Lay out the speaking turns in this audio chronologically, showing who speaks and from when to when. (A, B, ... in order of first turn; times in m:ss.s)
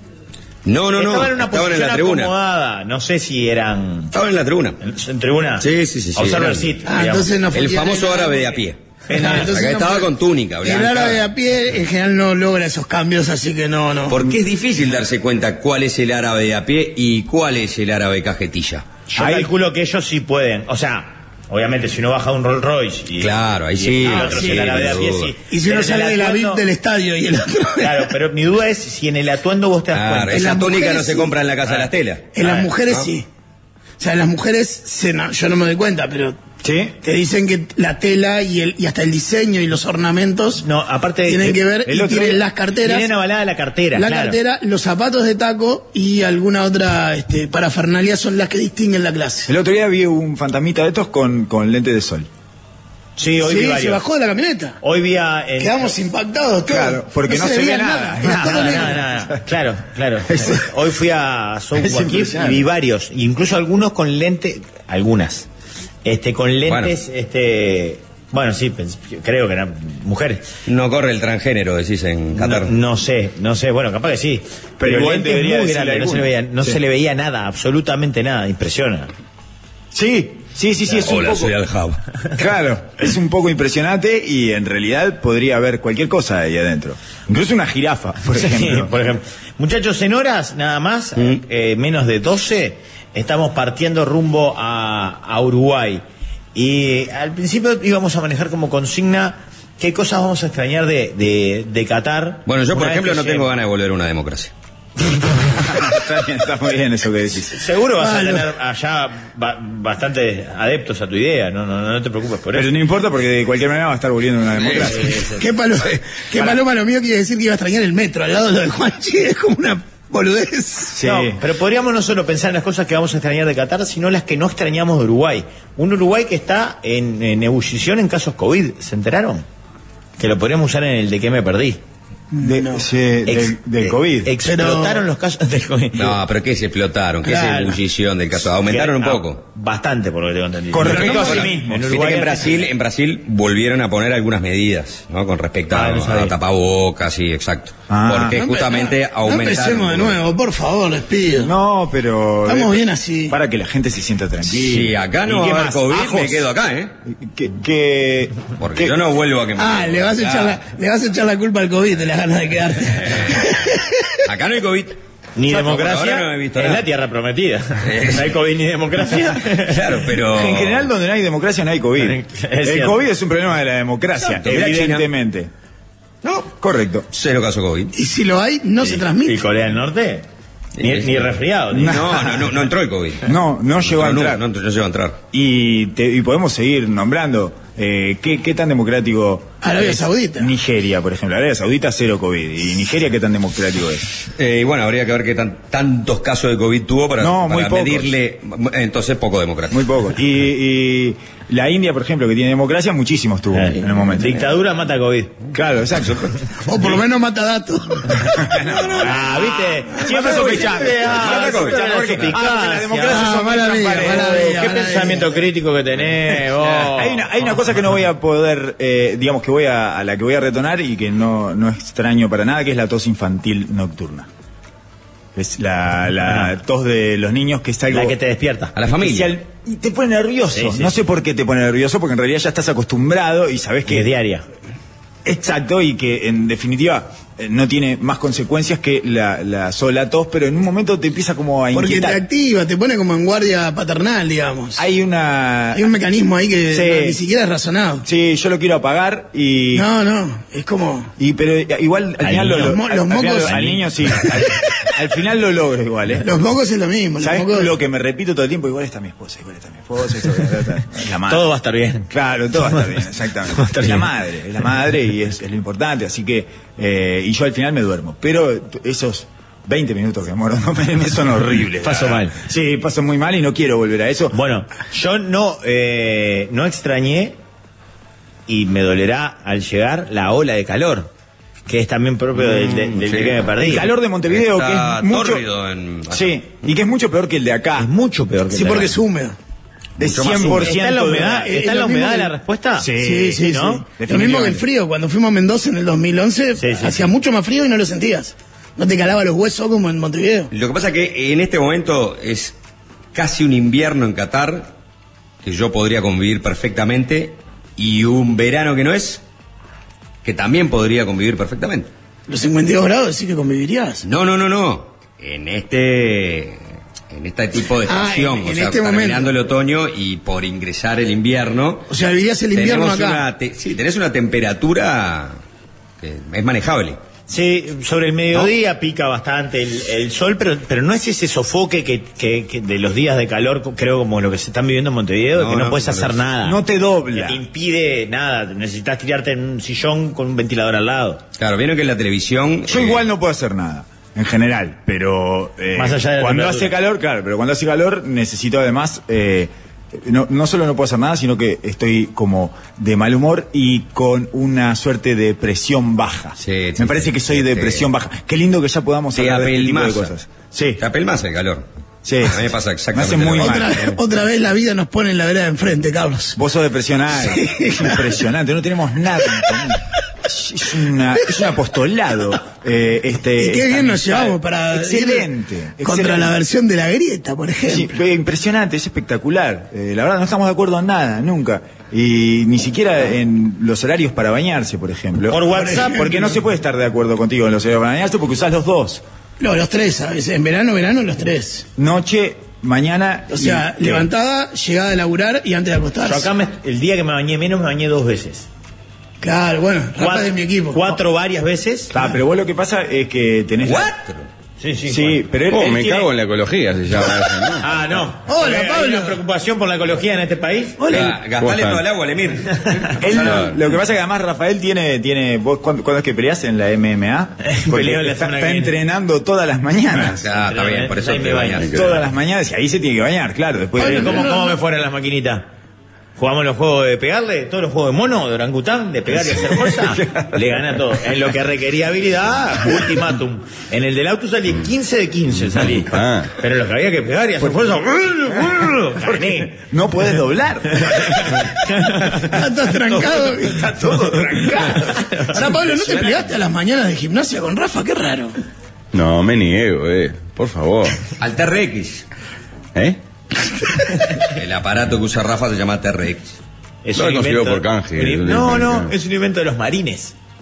0:00.6-0:02.3 A
0:00.9-0:04.1 B
0:04.1-0:04.8 A
0:04.8-0:07.3 B
0:05.6-0:06.7 A
0:06.8-0:08.6 C
0:07.5-0:11.3 A
0:09.1-0:09.5 B
0:09.1-0:10.1 C
0:10.6-0:14.2 C
0:14.1-0:18.8 A
0:19.1-0:26.6 B
0:19.2-0:19.5 D
0:23.2-0:25.3 A
0:25.5-0:28.1 C
0:27.8-0:30.5 B
0:29.9-0:32.3 A
0:30.3-0:31.3 C
0:31.6-0:32.7 B
0:32.3-0:33.2 C
0:34.0-0:36.4 C
0:36.6-0:37.0 D
0:37.0-0:40.6 C
0:40.6-0:41.6 B
0:41.3-0:43.1 C
0:41.8-0:42.4 D
0:42.8-0:44.4 B
0:43.9-0:49.5 C
0:49.5-0:52.3 D
0:53.2-0:54.0 B
0:53.4-0:54.8 C
0:54.8-0:55.9 B
0:55.6-0:59.0 C
0:56.6-0:59.4 D
0:58.2-1:05.5 B
1:00.3-1:00.6 D
1:01.8-1:02.6 D
1:06.0-1:10.4 B
1:06.7-1:06.9 A
1:10.6-1:12.7 A
1:12.3-1:19.1 B
1:14.8-1:16.8 D
1:19.9-1:21.5 D
1:21.0-1:22.0 A
1:22.3-1:28.9 D
1:28.3-1:36.0 B
1:36.5-1:43.5 B
1:42.4-1:44.5 A
1:45.5-1:47.6 D
1:47.5-1:52.7 B
1:48.0-1:48.5 C
1:52.5-1:55.2 D
1:54.8-1:55.1 A
1:55.2-2:01.0 C
2:00.9-2:01.4 D
2:01.0-2:09.4 B
2:10.2-2:11.8 B
2:12.3-2:12.8 C
2:12.4-2:14.3 D
2:13.3-2:16.2 B
2:14.4-2:15.0 C
2:16.0-2:19.4 A
2:18.6-2:22.7 B
2:20.7-2:22.1 D
2:20.8-2:30.2 A
2:25.7-2:26.3 B
2:27.9-2:28.4 D
2:28.3-2:31.5 C
2:31.3-2:36.5 D
2:32.4-2:33.4 C
2:34.5-2:36.9 A
2:37.1-2:38.9 D
2:38.6-2:40.6 A
2:39.6-2:43.9 C
2:42.8-2:43.5 A
2:44.2-2:46.8 A
2:45.4-2:50.0 B
2:47.8-2:48.3 A
2:49.5-2:50.9 A
2:50.3-2:55.5 D
2:52.0-2:53.0 B
2:54.4-2:55.1 A
2:56.2-2:56.5 A
2:56.5-2:57.1 D
2:57.1-2:57.9 A
2:57.9-2:59.4 C
2:58.8-3:00.2 B
3:00.8-3:02.1 B
3:00.8-3:01.2 A
3:01.7-3:02.5 D
3:01.7-3:03.3 A
3:03.2-3:04.4 D
3:03.8-3:05.2 A
3:05.3-3:14.1 D
3:09.6-3:10.5 C
3:14.3-3:19.8 A
3:17.2-3:18.1 D
3:19.7-3:24.5 D
3:23.5-3:25.4 B
3:25.5-3:26.3 D
3:26.6-3:28.9 C
3:28.3-3:34.8 D
3:29.0-3:33.3 B
3:31.0-3:32.4 A
3:33.1-3:35.3 C
3:34.0-3:37.5 B
3:36.8-3:44.3 D
3:45.3-3:48.2 D
3:46.2-3:46.5 B
3:47.9-3:48.7 B
3:48.8-3:49.3 A
3:48.8-3:54.1 D
3:50.5-3:50.9 B
3:53.8-3:54.4 B
3:55.2-4:02.2 D
4:01.7-4:04.8 C
4:04.8-4:05.9 D
4:05.7-4:08.0 C
4:06.7-4:07.2 D
4:08.0-4:09.9 D
4:09.7-4:11.1 C
4:11.2-4:16.2 D
4:12.2-4:12.8 B
4:12.5-4:13.6 C
4:13.4-4:14.3 B
4:16.2-4:17.7 C
4:17.2-4:21.4 D
4:21.2-4:22.9 B
4:22.1-4:34.4 D
4:23.5-4:24.1 B
4:31.8-4:32.4 B
4:34.3-4:37.4 B
4:38.5-4:41.1 B
4:41.6-4:43.8 B
4:42.3-4:43.6 A
4:43.6-4:45.4 D
4:44.3-4:46.4 A
4:46.1-4:47.9 D
4:47.8-4:48.9 B
4:48.5-4:49.4 C
4:50.0-4:51.6 D
4:50.0-4:50.8 A
4:50.6-4:53.8 B
4:51.4-4:52.3 C
4:52.8-4:54.6 D
4:53.0-5:00.5 C
4:56.6-4:57.1 B
5:00.5-5:02.5 A
5:03.1-5:04.7 A
5:05.4-5:09.2 A
5:10.2-5:11.9 A
5:12.3-5:14.0 C
5:14.0-5:21.9 A
5:17.8-5:19.3 C
5:21.9-5:23.3 C
5:22.5-5:25.4 A
5:26.0-5:27.0 A
5:27.3-5:36.6 B
5:35.3-5:36.2 A
5:36.4-5:37.4 D
5:37.2-5:41.2 B
5:41.4-5:43.0 A
5:42.6-6:00.8 D
5:45.7-5:46.7 B
5:56.4-5:57.8 A
5:59.1-6:00.1 A
6:00.8-6:01.6 A
6:02.0-6:04.0 D
6:02.2-6:03.9 A
6:03.4-6:06.4 C
6:06.3-6:16.4 D
6:07.1-6:08.1 C
6:13.4-6:15.3 C
6:15.8-6:18.0 C
6:17.6-6:29.0 D
6:25.3-6:26.4 B
6:29.4-6:31.6 C
6:31.8-6:34.1 D
6:33.3-6:36.3 C
6:36.0-6:38.5 B
6:39.2-6:41.0 C
6:40.0-6:41.9 B
6:41.9-6:43.9 D
6:43.6-6:44.3 A
6:44.6-6:45.2 B
6:44.9-6:46.1 D
6:45.5-6:47.7 E
6:47.6-6:50.8 B
6:48.3-6:49.2 C
6:50.8-6:51.1 C
6:50.9-6:53.6 A
6:50.9-6:51.8 E
6:53.0-7:00.2 D
6:57.4-6:58.8 B
7:00.0-7:02.0 A
7:00.4-7:01.7 B
7:01.6-7:01.9 E
7:01.7-7:04.3 D
7:03.8-7:05.5 B
7:03.8-7:04.5 C
7:06.2-7:19.5 B
7:09.5-7:10.4 D
7:15.7-7:16.3 E
7:18.3-7:21.3 D
7:20.7-7:22.4 B
7:22.2-7:23.7 C
7:23.6-7:25.0 D
7:23.8-7:26.2 B
7:25.3-7:28.4 C
7:28.9-7:31.0 E
7:31.2-7:32.0 A
7:34.2-7:36.4 A
7:36.8-7:40.1 B
7:36.9-7:38.9 E